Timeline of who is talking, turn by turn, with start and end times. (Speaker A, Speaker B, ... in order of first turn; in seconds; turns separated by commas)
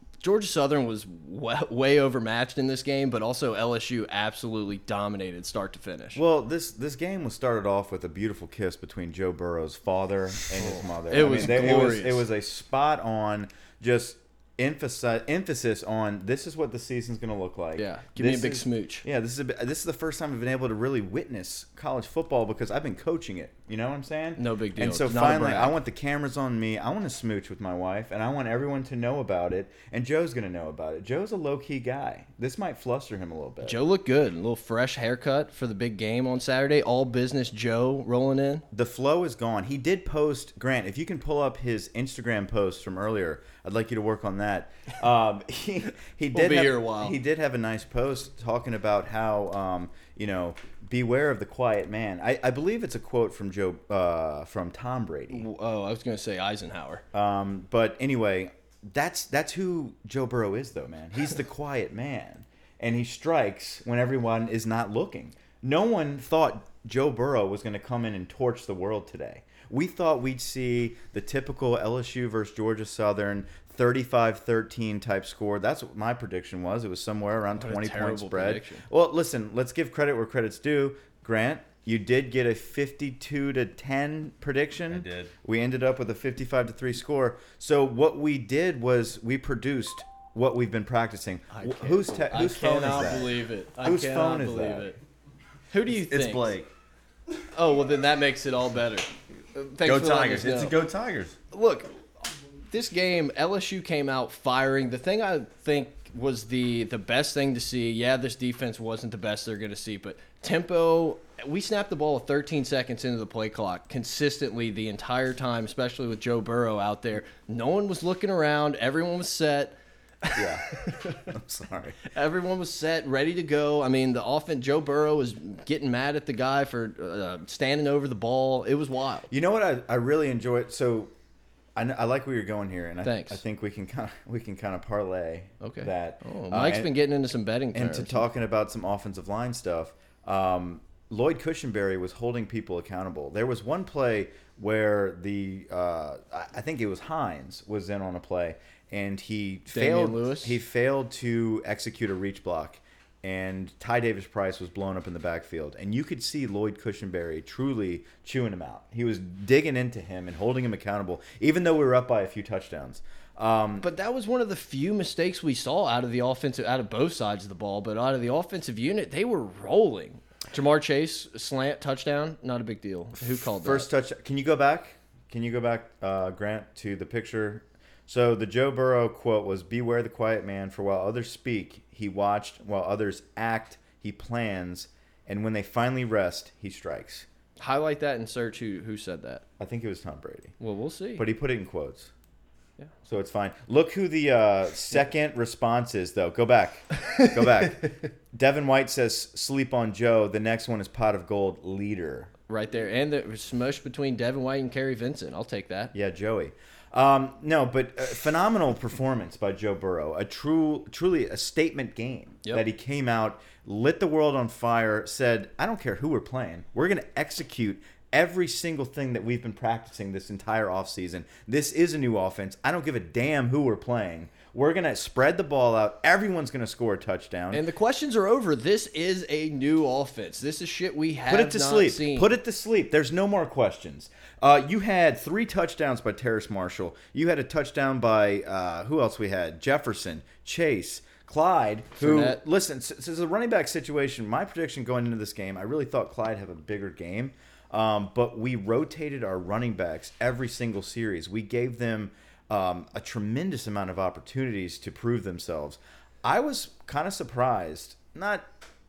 Speaker A: 0.2-6.2, Speaker B: 6.2-33.8, Speaker A: 11.1-12.3, Speaker A: 17.8-19.1, Speaker A: 24.4-25.7, Speaker A: 33.6-38.6, Speaker B: 38.7-55.5, Speaker A: 46.3-47.2, Speaker A: 55.3-57.0, Speaker B: 57.1-94.9, Speaker A: 77.6-78.8, Speaker C: 84.9-85.3, Speaker A: 91.5-95.0, Speaker A: 95.7-96.5, Speaker C: 95.9-96.7, Speaker A: 97.5-100.8, Speaker C: 99.8-101.4, Speaker A: 101.5-101.9, Speaker A: 102.7-121.3, Speaker B: 120.3-122.0, Speaker A: 122.0-129.3, Speaker B: 129.3-131.1, Speaker B: 131.8-136.9, Speaker A: 133.0-133.4, Speaker A: 135.6-138.3, Speaker B: 137.7-163.9, Speaker A: 149.7-150.6, Speaker A: 163.8-173.9, Speaker B: 173.3-187.3, Speaker A: 187.6-189.4, Speaker B: 189.6-190.6, Speaker A: 190.6-191.2, Speaker B: 191.2-192.1, Speaker B: 193.1-202.3, Speaker A: 202.5-205.9, Speaker B: 205.9-227.6, Speaker A: 227.5-232.3, Speaker B: 231.3-258.5, Speaker A: 242.0-242.4